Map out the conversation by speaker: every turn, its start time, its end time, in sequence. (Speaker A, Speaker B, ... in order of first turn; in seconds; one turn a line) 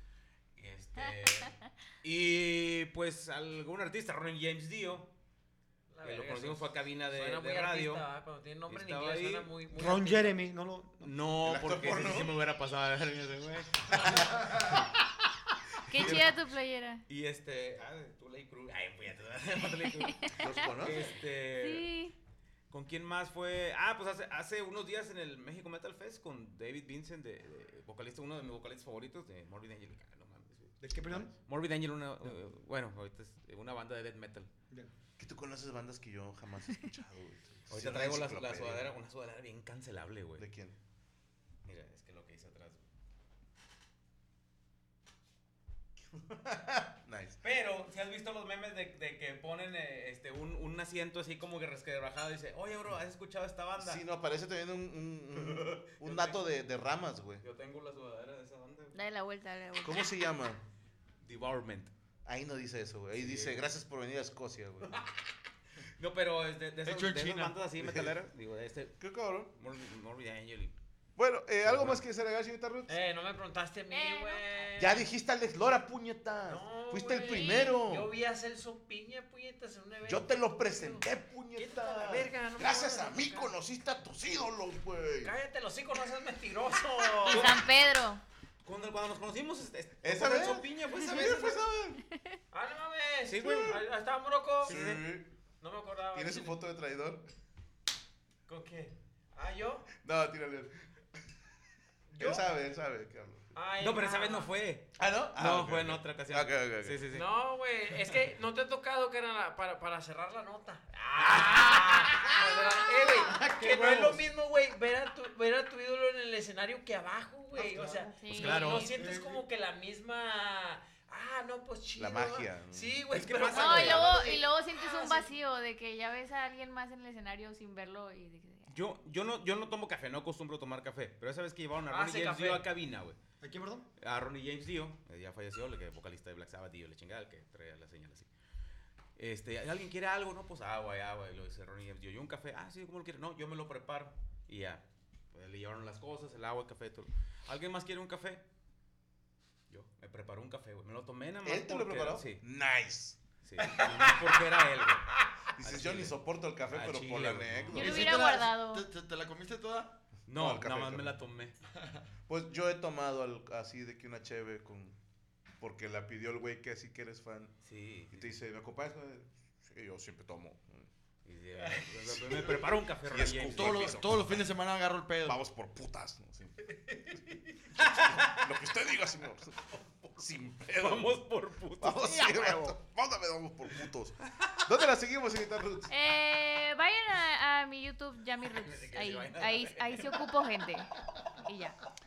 Speaker A: 0.6-5.1
Speaker B: 1.0-1.5
Speaker C: 5.9-10.4
Speaker A: 6.0-8.1
Speaker A: 8.7-9.5
Speaker D: 9.7-11.1
Speaker A: 11.0-14.8
Speaker E: 11.4-12.4
Speaker E: 13.9-14.2
Speaker B: 15.9-17.0
Speaker A: 15.9-16.3
Speaker A: 17.1-21.9
Speaker B: 20.0-20.7
Speaker E: 20.4-21.1
Speaker B: 21.6-22.1
Speaker A: 22.7-34.5
Speaker D: 30.8-31.3
Speaker E: 35.2-38.9
Speaker A: 37.7-40.5
Speaker E: 40.4-40.8
Speaker A: 41.7-42.9
Speaker E: 46.3-47.4
Speaker A: 47.4-54.0
Speaker E: 53.8-57.4
Speaker A: 55.4-56.4
Speaker A: 57.4-59.0
Speaker B: 58.9-60.1
Speaker E: 59.8-60.6
Speaker A: 61.2-61.9
Speaker E: 62.3-65.0
Speaker A: 63.2-63.6
Speaker A: 64.8-65.2
Speaker A: 66.0-69.0
Speaker F: 66.8-67.6
Speaker E: 67.8-68.1
Speaker E: 69.0-69.5
Speaker A: 69.5-70.8
Speaker E: 71.2-73.0
Speaker A: 71.6-72.0
Speaker C: 72.9-75.1
Speaker B: 73.9-74.4
Speaker E: 74.8-78.1
Speaker C: 76.4-81.0
Speaker B: 77.1-77.8
Speaker E: 80.0-85.3
Speaker C: 81.5-83.5
Speaker C: 85.2-87.5
Speaker A: 87.3-87.6
Speaker B: 87.3-88.2
Speaker A: 88.7-91.6
Speaker E: 90.0-92.0
Speaker C: 92.5-94.8
Speaker A: 93.3-93.8
Speaker A: 94.6-95.0
Speaker E: 94.6-95.3
Speaker C: 95.6-96.6
Speaker E: 96.1-97.3
Speaker C: 98.5-99.9
Speaker E: 100.0-100.9
Speaker C: 102.1-102.5
Speaker E: 102.2-103.6
Speaker C: 103.5-104.5
Speaker A: 103.8-107.3
Speaker E: 105.0-107.0
Speaker C: 107.1-125.3
Speaker A: 111.2-112.5
Speaker D: 113.3-114.0
Speaker E: 113.9-114.2
Speaker D: 117.5-119.4
Speaker B: 118.2-118.7
Speaker A: 118.3-118.9
Speaker E: 122.0-123.0
Speaker A: 123.1-124.1
Speaker B: 123.5-128.8
Speaker A: 128.7-133.2
Speaker C: 131.9-132.7
Speaker D: 133.4-133.9
Speaker A: 134.0-138.3
Speaker A: 139.2-144.8
Speaker A: 145.3-148.4
Speaker A: 149.7-152.4
Speaker E: 151.4-153.2
Speaker A: 153.4-155.1
Speaker C: 153.7-154.3
Speaker E: 155.6-158.2
Speaker A: 155.6-157.9
Speaker B: 157.7-158.9
Speaker F: 157.8-160.0
Speaker E: 160.3-161.2
Speaker A: 160.3-161.6
Speaker E: 162.3-165.0
Speaker E: 165.6-167.6
Speaker A: 167.7-168.2
Speaker E: 168.1-170.9
Speaker A: 171.3-174.0
Speaker F: 172.2-172.7
Speaker E: 173.1-174.5
Speaker F: 173.5-175.4
Speaker E: 175.2-176.6
Speaker C: 176.9-177.5
Speaker A: 177.8-178.5
Speaker E: 177.8-181.2
Speaker A: 180.7-182.8
Speaker E: 181.8-185.9
Speaker B: 185.9-191.8
Speaker A: 188.5-190.2